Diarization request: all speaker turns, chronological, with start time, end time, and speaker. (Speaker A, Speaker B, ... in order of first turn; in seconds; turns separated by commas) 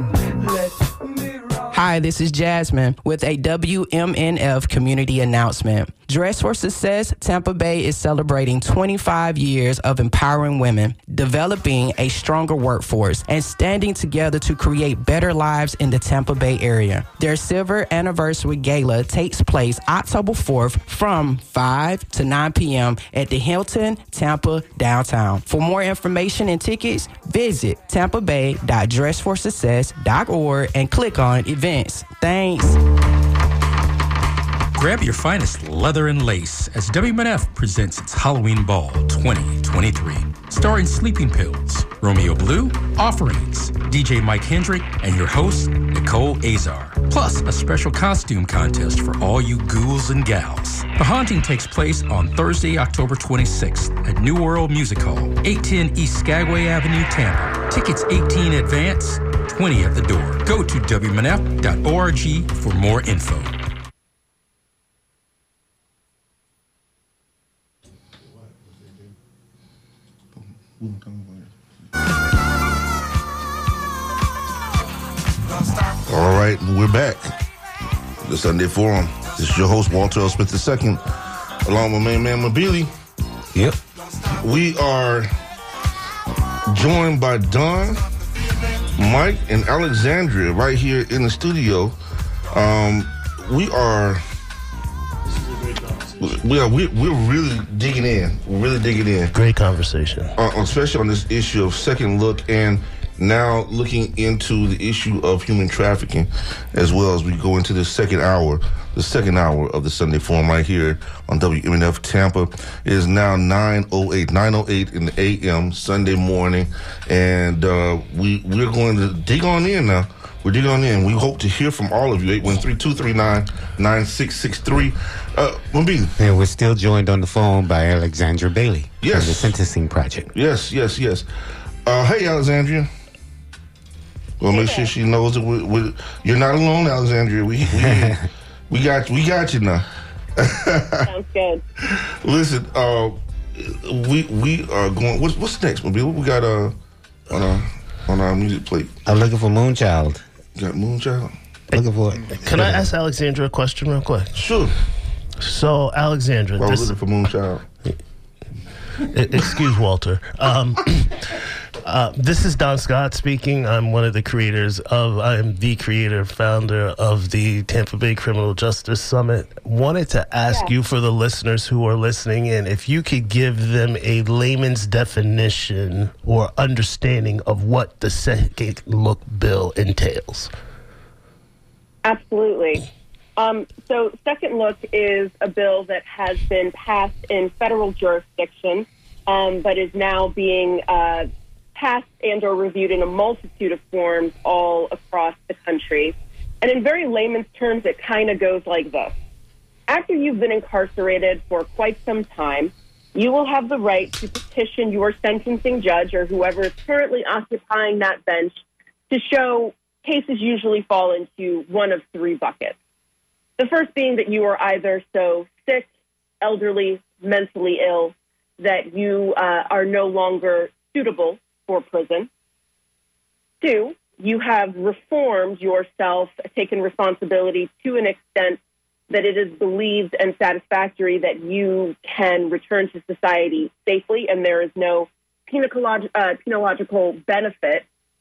Speaker A: 1.7-32.8, Speaker B: 34.7-63.5, Speaker C: 70.4-71.5, Speaker C: 76.0-77.3, Speaker C: 78.2-81.0, Speaker C: 81.6-82.9, Speaker C: 84.4-85.3, Speaker C: 86.7-88.0, Speaker C: 88.9-92.0, Speaker C: 92.5-94.2, Speaker D: 95.3-96.3, Speaker C: 96.2-99.3, Speaker D: 99.3-100.3, Speaker C: 100.4-126.1, Speaker E: 126.2-130.3, Speaker C: 129.0-129.6, Speaker C: 130.3-131.3, Speaker C: 131.8-132.9, Speaker C: 134.4-139.8, Speaker F: 134.5-134.9, Speaker E: 137.7-138.2, Speaker C: 140.4-141.1, Speaker F: 141.1-141.6, Speaker C: 141.8-146.8, Speaker C: 147.3-148.9, Speaker E: 149.1-150.2, Speaker C: 150.6-151.3, Speaker E: 151.7-152.8, Speaker D: 151.7-154.3, Speaker C: 154.3-154.8, Speaker D: 155.4-156.9, Speaker C: 156.6-157.7, Speaker D: 159.1-161.3, Speaker D: 161.8-180.5, Speaker F: 170.5-170.7, Speaker F: 182.0-182.8, Speaker F: 183.4-199.1, Speaker F: 199.9-212.8, Speaker F: 213.6-215.9, Speaker F: 216.4-222.3, Speaker F: 223.6-228.6, Speaker F: 229.1-237.8